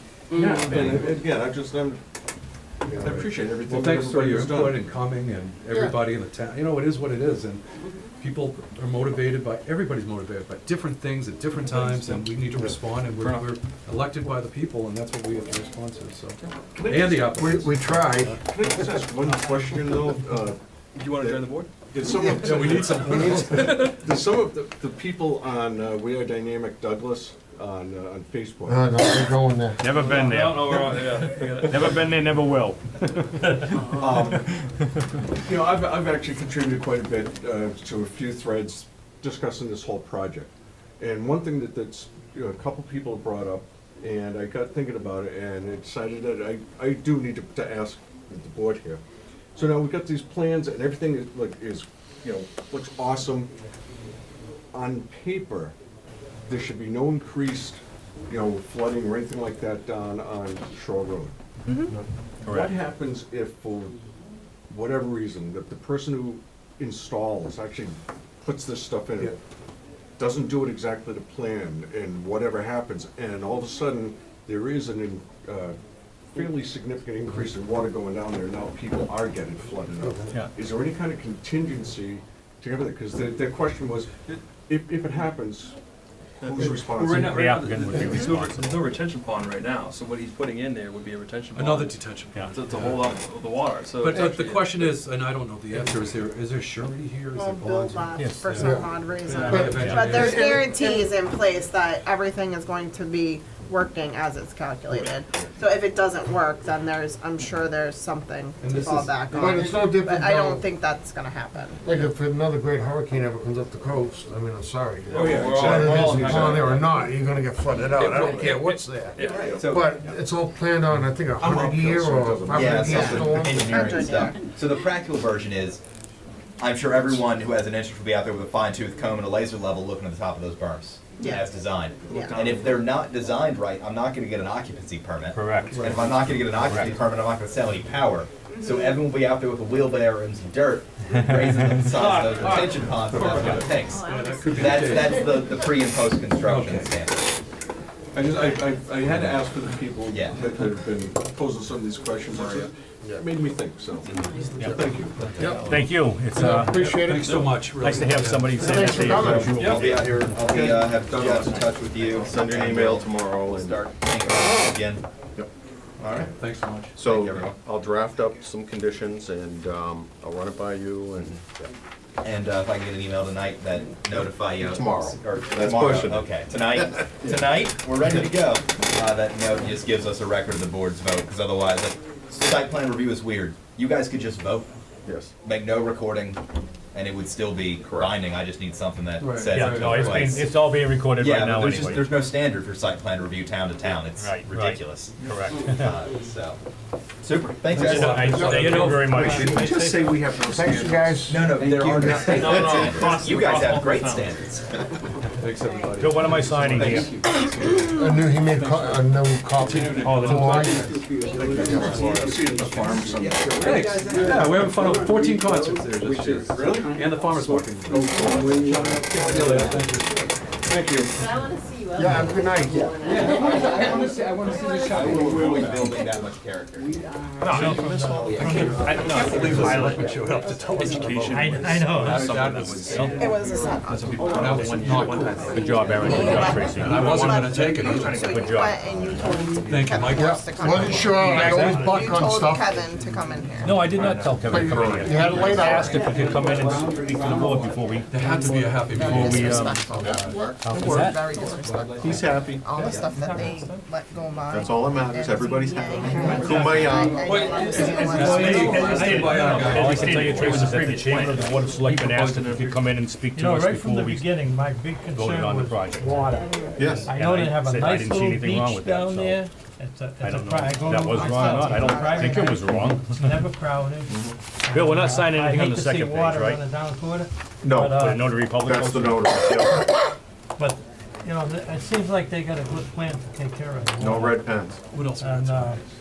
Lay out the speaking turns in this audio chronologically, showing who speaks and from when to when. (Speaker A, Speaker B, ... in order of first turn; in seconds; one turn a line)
Speaker A: 0.3-2.0
Speaker A: 2.9-4.9
Speaker B: 3.2-7.6
Speaker B: 8.2-18.4
Speaker C: 11.7-12.2
Speaker C: 13.1-13.6
Speaker A: 16.7-17.4
Speaker D: 17.4-18.4
Speaker A: 18.3-28.9
Speaker C: 21.0-21.7
Speaker B: 22.3-23.9
Speaker C: 23.5-23.9
Speaker D: 28.7-29.8
Speaker E: 29.8-34.4
Speaker C: 29.9-32.0
Speaker A: 33.9-34.5
Speaker A: 35.4-49.0
Speaker A: 49.5-53.5
Speaker A: 54.7-55.7
Speaker A: 56.5-61.3
Speaker E: 62.4-62.8
Speaker A: 62.5-64.0
Speaker A: 64.7-69.3
Speaker A: 70.2-75.8
Speaker A: 76.3-84.1
Speaker A: 84.6-85.8
Speaker A: 86.4-87.5
Speaker C: 86.4-95.0
Speaker E: 87.1-88.8
Speaker B: 91.5-93.0
Speaker B: 94.0-98.1
Speaker F: 97.3-111.8
Speaker E: 98.1-100.2
Speaker D: 98.5-101.1
Speaker B: 99.2-100.4
Speaker B: 108.6-109.6
Speaker D: 109.3-110.7
Speaker D: 111.8-124.0
Speaker A: 115.1-116.7
Speaker C: 115.1-117.1
Speaker C: 118.0-119.5
Speaker A: 118.0-118.6
Speaker A: 119.2-119.6
Speaker G: 119.5-119.9
Speaker A: 121.4-123.8
Speaker G: 122.5-125.8
Speaker F: 122.9-124.5
Speaker G: 126.6-147.3
Speaker F: 131.2-131.5
Speaker F: 132.1-132.6
Speaker E: 135.3-137.0
Speaker B: 135.8-136.1
Speaker E: 141.3-142.0
Speaker B: 141.9-145.2
Speaker A: 143.2-143.7
Speaker E: 143.2-143.7
Speaker H: 143.8-145.2
Speaker B: 146.3-146.9
Speaker A: 148.1-155.4
Speaker G: 150.1-150.4
Speaker G: 155.3-155.6
Speaker D: 155.4-155.7
Speaker E: 155.5-156.9
Speaker D: 156.3-157.4
Speaker B: 156.3-158.9
Speaker C: 157.2-157.6
Speaker E: 157.7-159.8
Speaker D: 158.5-160.0
Speaker C: 159.5-159.9
Speaker G: 159.6-165.0
Speaker A: 160.3-161.7
Speaker I: 162.1-164.6
Speaker G: 166.0-166.3
Speaker B: 166.4-166.9
Speaker I: 166.9-171.7
Speaker G: 167.1-167.6
Speaker G: 172.2-184.7
Speaker I: 174.6-177.4
Speaker I: 185.1-185.3
Speaker G: 185.4-186.4
Speaker G: 186.9-190.5
Speaker I: 187.8-188.1
Speaker C: 189.2-190.4
Speaker E: 189.4-192.2
Speaker G: 191.2-196.6
Speaker E: 194.2-196.0
Speaker G: 197.2-198.6
Speaker B: 197.6-199.8
Speaker E: 197.8-200.2
Speaker F: 198.5-198.8
Speaker G: 199.1-199.6
Speaker A: 199.4-200.9
Speaker D: 200.5-202.6
Speaker B: 200.6-200.9
Speaker G: 201.2-204.8
Speaker C: 202.2-204.3
Speaker I: 202.6-203.2
Speaker E: 203.6-203.9
Speaker B: 205.4-211.1
Speaker H: 205.7-206.0
Speaker E: 206.0-207.2
Speaker D: 207.9-211.0
Speaker E: 209.8-210.4
Speaker G: 210.6-220.0
Speaker A: 210.9-214.6
Speaker H: 211.2-212.1
Speaker D: 211.5-212.1
Speaker B: 211.9-212.9
Speaker B: 213.5-220.4
Speaker H: 214.1-215.2
Speaker H: 216.3-217.2
Speaker A: 216.5-216.9
Speaker D: 218.1-218.6
Speaker H: 218.2-219.9
Speaker A: 220.7-221.1
Speaker H: 221.2-226.0
Speaker D: 221.9-223.8
Speaker G: 223.0-231.1
Speaker B: 225.4-225.7
Speaker C: 227.4-233.2
Speaker J: 227.5-229.0
Speaker B: 228.3-233.3
Speaker H: 228.5-230.3
Speaker J: 231.3-232.3
Speaker E: 232.3-233.2
Speaker F: 233.0-244.3
Speaker G: 233.2-233.6
Speaker H: 233.3-233.6
Speaker C: 233.8-238.4
Speaker G: 234.2-234.8
Speaker B: 234.2-238.2
Speaker E: 235.4-237.3
Speaker E: 238.2-238.8
Speaker B: 239.6-241.7
Speaker D: 240.1-242.8
Speaker E: 243.6-249.9
Speaker I: 244.1-245.1
Speaker D: 244.5-246.0
Speaker F: 245.4-246.2
Speaker G: 246.0-249.2
Speaker B: 248.1-249.6
Speaker F: 248.8-258.9
Speaker I: 250.0-251.1
Speaker E: 250.4-251.3
Speaker C: 251.3-251.6
Speaker I: 252.0-253.0
Speaker C: 253.1-253.8
Speaker I: 254.5-257.1
Speaker G: 256.3-257.9
Speaker J: 256.5-256.9
Speaker H: 257.2-257.8
Speaker C: 257.3-262.9
Speaker J: 257.6-261.2
Speaker B: 258.0-260.7
Speaker E: 258.7-264.4
Speaker J: 263.3-278.2
Speaker E: 265.1-269.4
Speaker I: 266.7-267.1
Speaker E: 270.2-273.5
Speaker F: 271.1-272.7
Speaker I: 274.1-274.4
Speaker E: 274.7-276.6
Speaker I: 277.6-280.1
Speaker E: 277.8-279.6
Speaker J: 280.6-284.4
Speaker I: 284.0-284.8
Speaker B: 284.9-285.8
Speaker J: 285.2-285.8